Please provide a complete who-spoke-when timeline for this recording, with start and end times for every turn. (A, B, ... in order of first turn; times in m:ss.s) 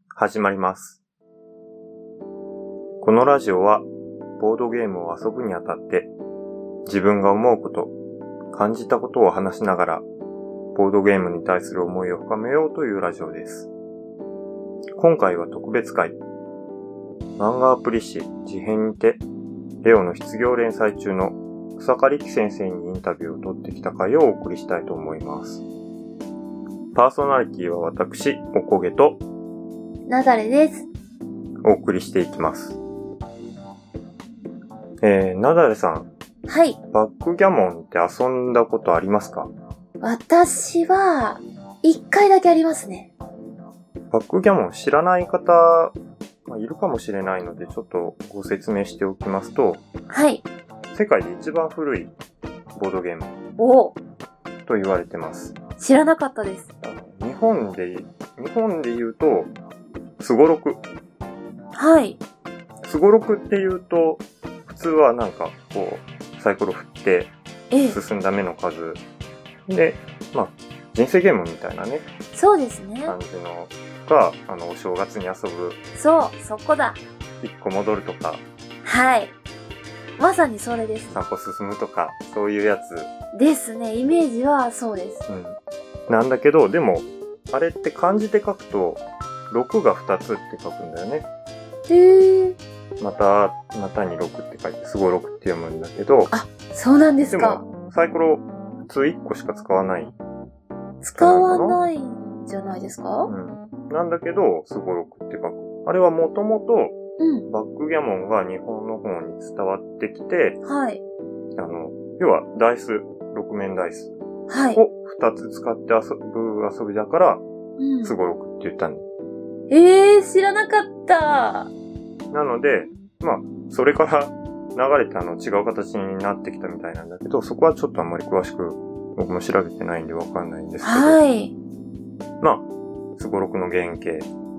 0:00.2-0:01.0 A
0:03.0-0:03.9 A
0:04.4-0:06.1 A
0:06.9-0:07.9 A
0:08.5-0:10.0 A
0:10.7-0:13.7 A
0:15.0-0:16.2 A
0:17.4-0:19.2 A
0:19.8-0:25.6 A
0:26.9-0:29.2 A
0:30.1-0:30.9 B
0:31.6-0:32.8 A
0:35.0-0:36.1 A
0:36.5-0:36.8 B
0:36.9-0:39.5 A
0:40.0-0:43.1 B
0:44.1-0:46.0 A
0:46.5-0:49.8 A
0:50.1-0:50.4 B
0:50.9-0:52.1 A
0:52.8-0:53.3 A
0:53.6-0:54.0 B
0:54.7-0:55.6 A
0:55.8-0:56.7 B
0:56.8-0:59.5 A
1:00.2-1:00.8 A
1:01.8-1:02.2 B
1:02.8-1:09.0 A
1:07.7-1:08.0 B
1:09.7-1:12.0 A
1:12.3-1:13.2 B
1:13.0-1:15.8 A
1:16.0-1:17.0 B
1:17.4-1:18.4 A
1:18.8-1:19.4 B
1:20.2-1:21.2 B
1:21.1-1:23.1 A
1:23.3-1:25.2 B
1:25.3-1:31.3 A
1:31.9-1:32.6 B
1:33.0-1:36.3 A
1:36.3-1:37.6 B
1:37.3-1:40.2 A
1:41.0-1:43.3 B
1:41.2-1:41.8 A
1:43.3-1:47.0 A
1:47.2-1:47.5 B
1:47.5-1:50.6 A
1:50.6-1:51.0 B
1:51.6-1:54.1 A
1:54.5-1:54.8 B
1:54.8-1:57.4 A
1:57.8-1:58.2 B
1:58.0-1:59.1 A
1:59.7-2:01.7 B
2:02.3-2:11.2 A
2:10.8-2:11.6 B
2:12.4-2:14.3 A